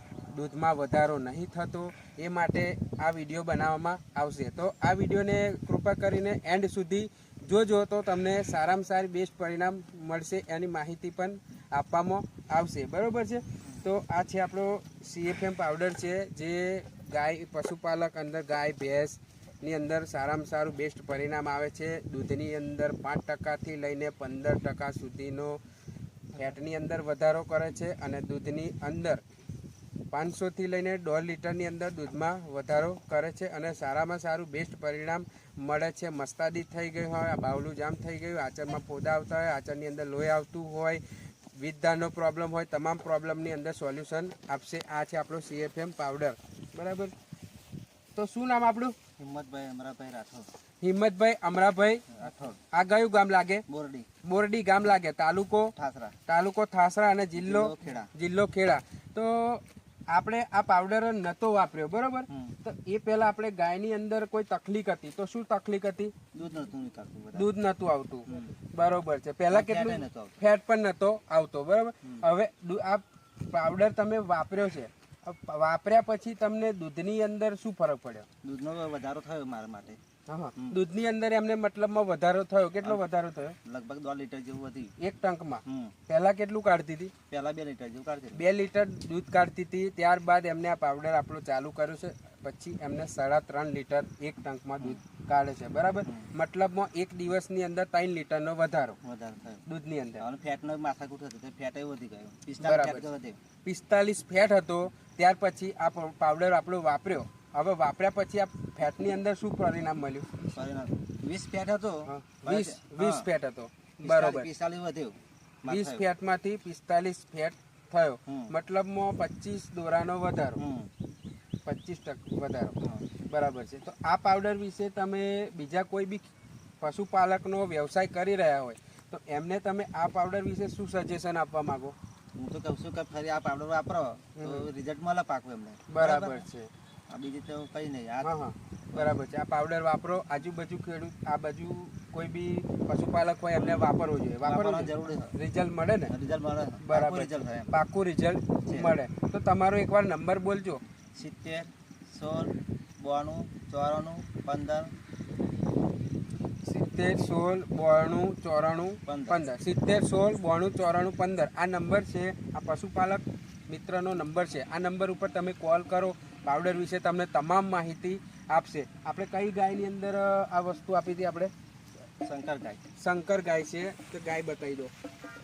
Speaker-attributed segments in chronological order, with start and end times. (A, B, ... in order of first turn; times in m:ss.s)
0:00.3-0:25.6 A
0:26.3-0:29.2 A
0:30.1-0:41.0 A
0:41.5-0:47.1 A
0:48.1-0:48.9 A
0:49.2-0:50.5 B
0:50.8-0:53.6 A
0:52.1-0:52.6 B
0:53.7-0:54.1 B
0:54.2-0:55.7 A
0:55.8-0:56.1 B
0:56.3-1:06.1 A
0:57.4-0:58.1 B
1:02.3-1:02.5 B
1:06.3-1:07.5 B
1:07.3-1:18.3 A
1:08.3-1:08.5 B
1:09.5-1:10.4 B
1:18.4-1:20.0 B
1:20.3-1:23.6 A
1:20.6-1:20.8 B
1:22.8-1:23.1 B
1:23.6-1:24.9 B
1:25.0-1:27.1 A
1:25.6-1:25.9 B
1:27.3-1:28.4 B
1:28.3-1:39.0 A
1:36.0-1:36.3 B
1:39.0-1:39.6 B
1:39.6-1:40.2 A
1:40.2-1:43.4 B
1:42.6-1:43.1 A
1:43.6-1:50.4 A
1:50.5-1:53.3 B
1:52.0-1:54.5 A
1:54.0-1:56.1 B
1:55.7-2:00.6 A
1:58.3-1:58.5 B
2:00.6-2:00.9 B
2:01.6-2:02.8 A
2:02.8-2:03.0 B
2:03.3-2:06.3 A
2:06.8-2:11.9 A
2:12.3-2:16.4 B
2:14.4-2:14.7 A
2:15.9-2:16.7 A
2:17.1-2:18.3 B
2:18.2-2:26.1 A
2:18.9-2:19.2 B
2:23.6-2:23.9 B
2:24.4-2:25.3 B
2:26.1-2:27.7 B
2:26.8-2:30.8 A
2:28.6-2:28.9 B
2:31.1-2:34.9 B
2:36.6-2:51.5 A
2:39.0-2:39.4 B
2:52.2-2:52.8 B
2:53.0-2:54.9 A